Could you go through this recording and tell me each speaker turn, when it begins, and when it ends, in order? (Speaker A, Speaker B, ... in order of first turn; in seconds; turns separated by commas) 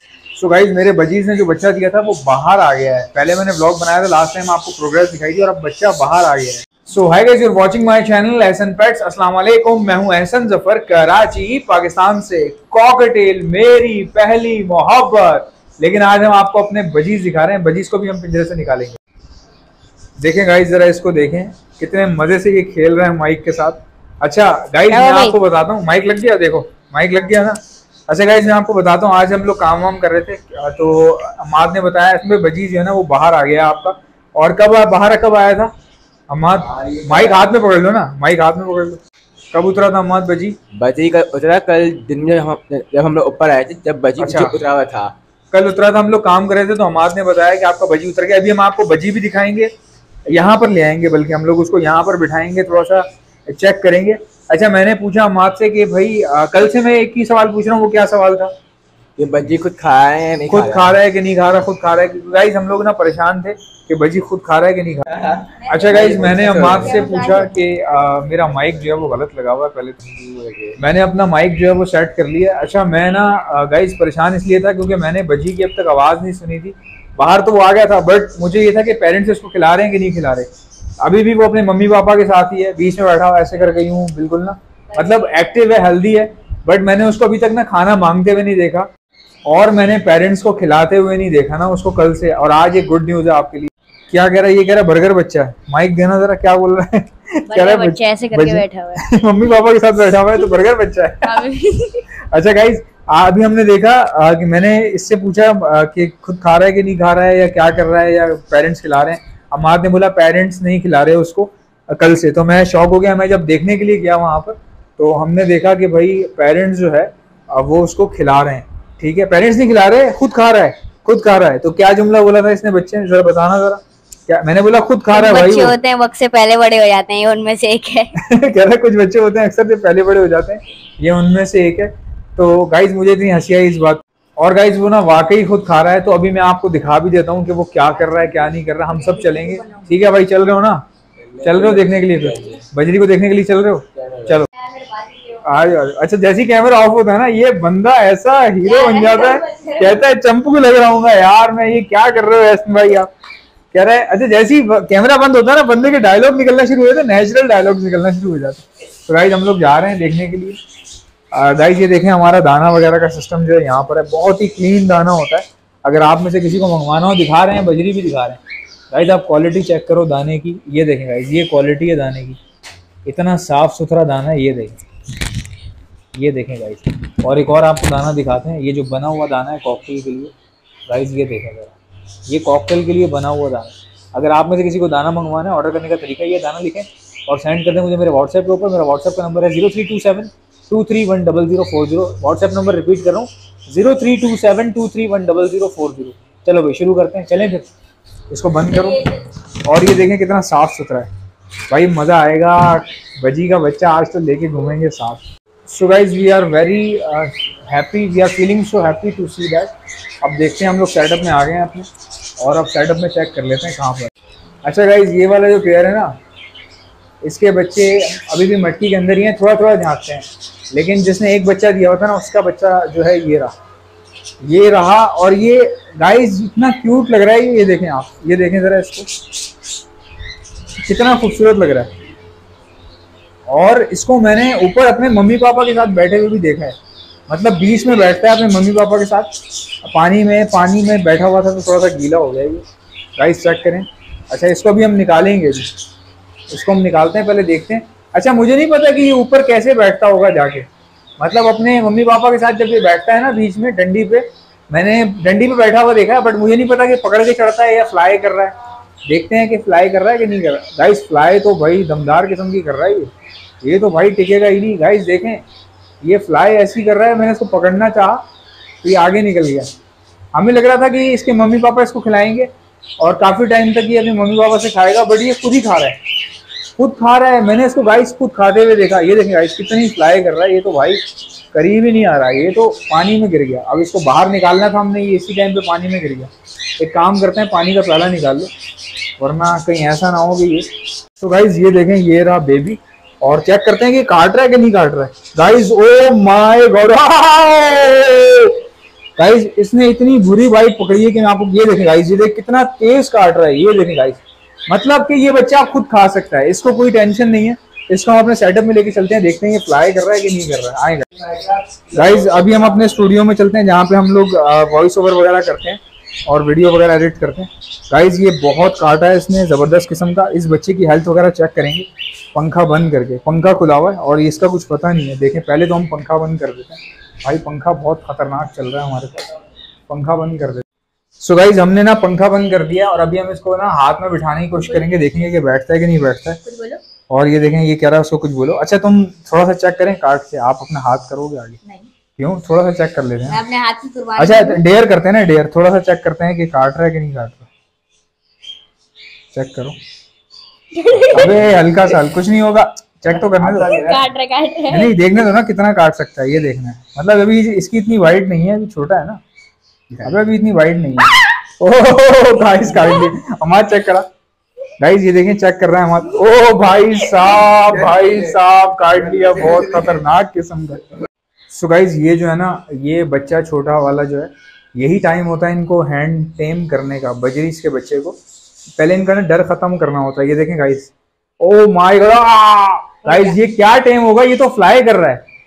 Speaker A: 0.3-19.0, Speaker A: 20.2-35.7, Speaker B: 24.9-25.4, Speaker A: 36.3-39.0, Speaker A: 39.5-40.6, Speaker C: 40.7-45.1, Speaker A: 44.2-44.6, Speaker A: 45.5-49.7, Speaker A: 50.3-58.5, Speaker C: 59.2-60.9, Speaker A: 60.5-70.0, Speaker C: 65.8-67.3, Speaker B: 66.7-67.6, Speaker C: 70.0-70.8, Speaker A: 70.8-80.5, Speaker A: 81.0-88.9, Speaker A: 89.5-101.5, Speaker B: 97.5-99.0, Speaker B: 101.2-102.0, Speaker A: 102.3-125.8, Speaker B: 125.1-128.1, Speaker A: 128.2-140.8, Speaker B: 138.0-139.9, Speaker C: 141.2-142.6, Speaker A: 141.4-144.5, Speaker C: 144.0-144.4, Speaker B: 144.5-145.5, Speaker A: 145.4-153.1, Speaker B: 148.6-150.0, Speaker A: 153.7-160.6, Speaker A: 161.3-168.4, Speaker A: 168.9-172.4, Speaker A: 173.1-174.8, Speaker A: 176.2-180.3, Speaker A: 180.9-181.8, Speaker A: 182.3-197.7, Speaker A: 198.3-201.1, Speaker A: 201.7-211.9, Speaker A: 212.4-214.1, Speaker A: 214.6-216.2, Speaker A: 217.2-223.5, Speaker A: 224.4-229.1, Speaker A: 230.8-231.9, Speaker A: 233.5-236.8, Speaker A: 237.3-239.3, Speaker A: 239.8-242.6, Speaker A: 243.2-245.7, Speaker A: 246.5-258.5, Speaker A: 259.1-263.1, Speaker A: 263.6-265.4, Speaker A: 266.0-268.2, Speaker A: 268.8-269.7, Speaker A: 270.3-276.0, Speaker A: 276.8-288.5, Speaker A: 289.2-298.6, Speaker A: 299.2-329.3, Speaker A: 329.9-330.6, Speaker A: 331.2-336.4, Speaker B: 336.4-336.8, Speaker A: 337.1-341.6, Speaker A: 342.1-343.4, Speaker B: 343.3-344.6, Speaker A: 344.2-347.5, Speaker A: 349.3-349.8, Speaker B: 350.7-351.3, Speaker A: 351.1-354.0, Speaker B: 353.5-354.9, Speaker A: 354.7-359.2, Speaker A: 359.9-364.1, Speaker A: 364.8-370.8, Speaker A: 371.5-378.2, Speaker A: 378.8-385.2, Speaker B: 383.0-383.4